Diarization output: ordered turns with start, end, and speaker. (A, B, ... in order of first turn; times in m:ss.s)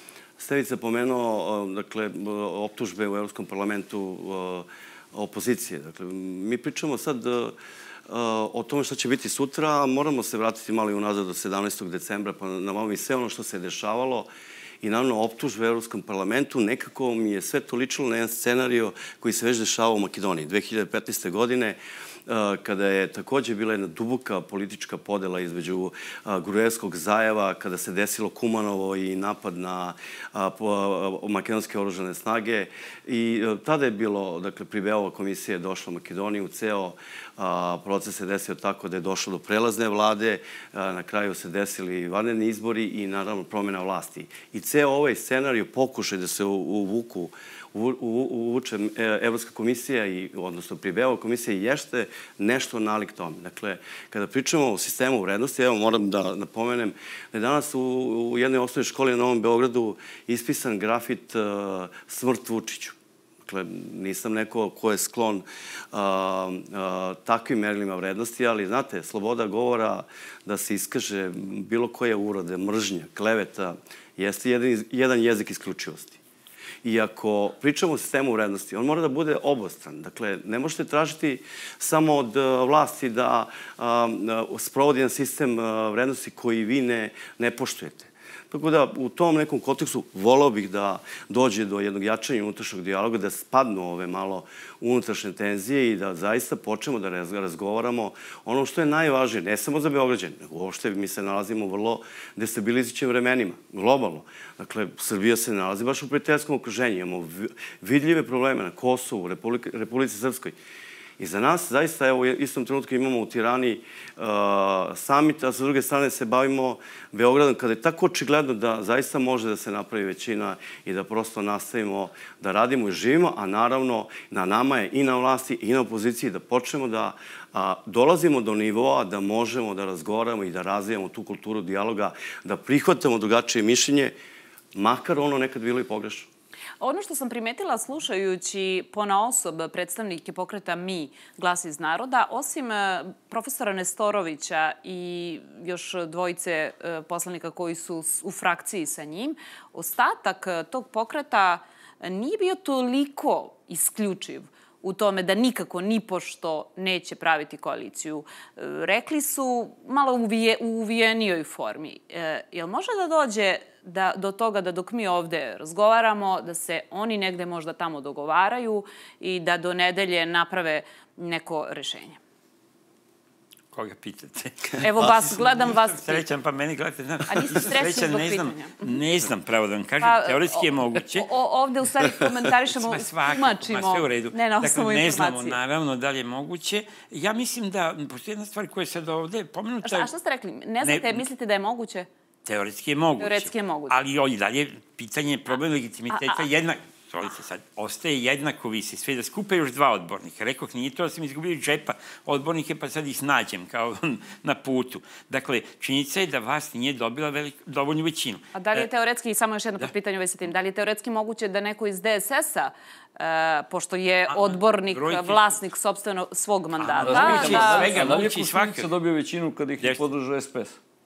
0:00.4-0:07.5 A
0:08.1-0:14.3 A
0:14.8-1:16.2 A
1:16.8-1:50.6 A
1:51.2-2:14.1 A
2:14.7-2:16.3 A
2:16.8-2:52.2 B
2:53.7-3:01.3 C
2:54.8-2:56.2 B
2:57.3-2:59.0 B
3:00.0-3:05.6 B
3:02.7-3:10.1 C
3:09.8-3:12.1 B
3:10.8-3:11.2 C
3:12.4-3:28.9 C
3:13.2-3:14.0 B
3:16.1-3:16.4 B
3:28.5-3:37.9 B
3:34.3-3:35.6 C
3:36.8-3:38.9 C
3:37.0-3:40.8 D
3:39.8-3:40.1 C